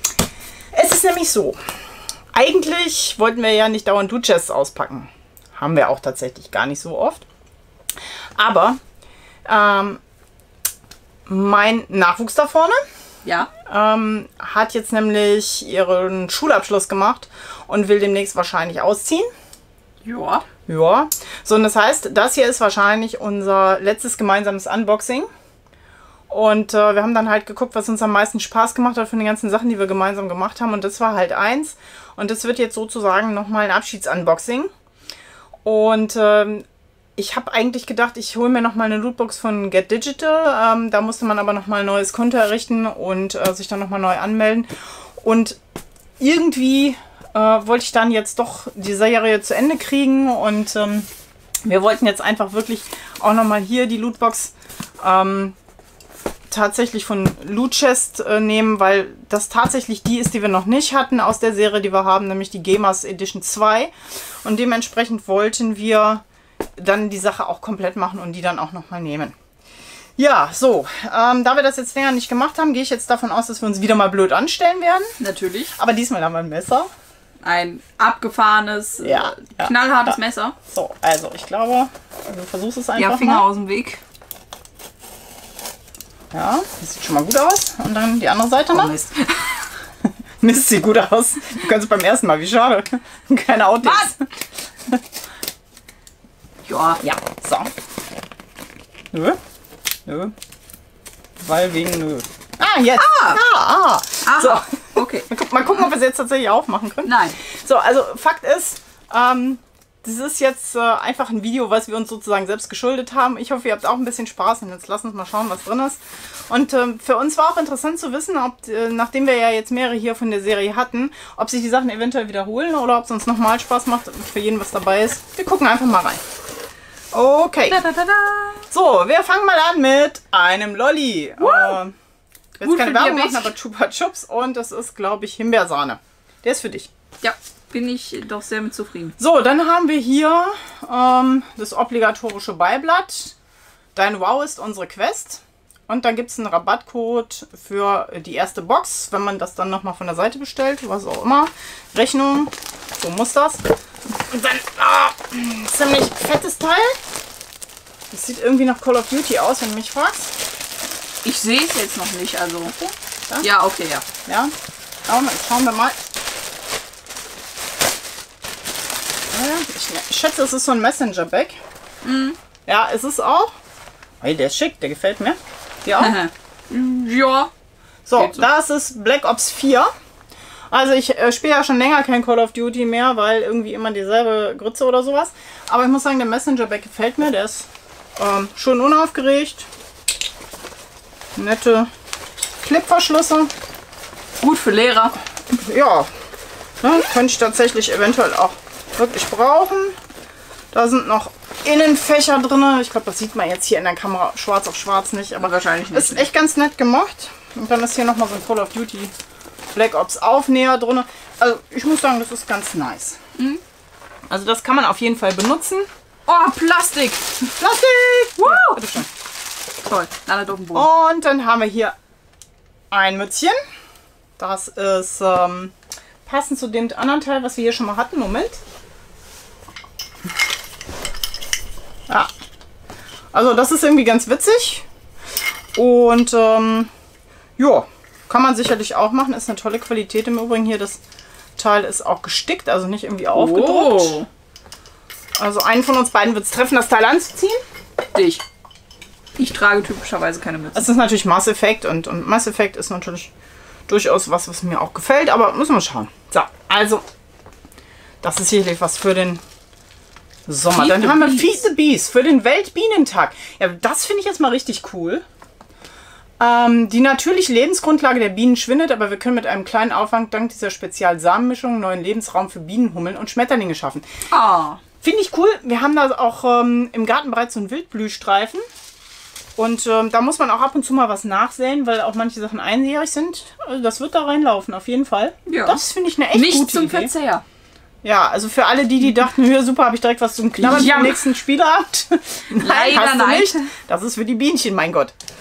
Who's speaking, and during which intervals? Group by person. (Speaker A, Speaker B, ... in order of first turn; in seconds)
Speaker A: 0.7-1.6, 2.3-7.2, 8.4-8.8, 9.5-10.0, 11.3-12.8, 13.7-19.3, 20.7-25.3, 26.3-34.7, 35.6-36.6, 37.2-45.6, 46.2-51.1, 51.6-55.6, 56.5-63.9, 64.4-66.2, 66.8-69.3, 70.2-75.2, 75.7-76.9, 79.0-83.5, 86.3-89.0, 90.4-94.3, 97.0-97.7, 99.1-99.4, 100.1-100.3, 101.4-126.2, 127.1-127.8, 128.7-131.9, 132.6-136.9, 139.2-143.3, 143.9-153.6, 154.3-157.0, 158.1-160.3, 164.2-164.5, 165.1-166.0, 169.3-171.6, 172.7-173.5, 174.2-176.2, 178.1-179.9, 180.7-187.7, 188.2-189.7, 191.4-191.9, 192.6-193.5, 195.5-196.1, 196.8-200.0, 200.7-209.1, 209.7-213.2, 214.3-215.9, 217.4-219.1, 220.7-221.9, 222.9-223.6, 224.4-225.7, 226.3-228.6, 233.3-234.9, 235.8-236.9, 237.6-241.0, 241.6-244.2, 245.4-247.6, 250.7-253.3, 253.9-257.0, 258.2-259.4, 260.5-265.2, 266.4-274.1, 275.0-278.6, 279.6-287.1, 288.0-295.1
Speaker B: 13.2-13.5, 20.0-20.4, 75.2-75.7, 77.4-80.6, 83.0-84.0, 88.7-89.5, 93.8-94.1, 96.7-97.0, 103.0-103.4, 104.2-105.3, 107.0-107.4, 127.7-128.7, 131.4-131.8, 132.6-133.5, 137.2-139.2, 161.2-162.8, 163.4-164.1, 172.0-172.4, 176.0-177.5, 178.2-178.5, 194.4-195.1, 205.4-206.3, 216.3-217.4, 218.4-218.8, 219.8-220.9, 243.3-244.3, 248.1-248.4, 249.4-250.9, 260.7-261.6, 274.3-274.8, 285.5-287.4, 290.6-291.3, 292.6-293.6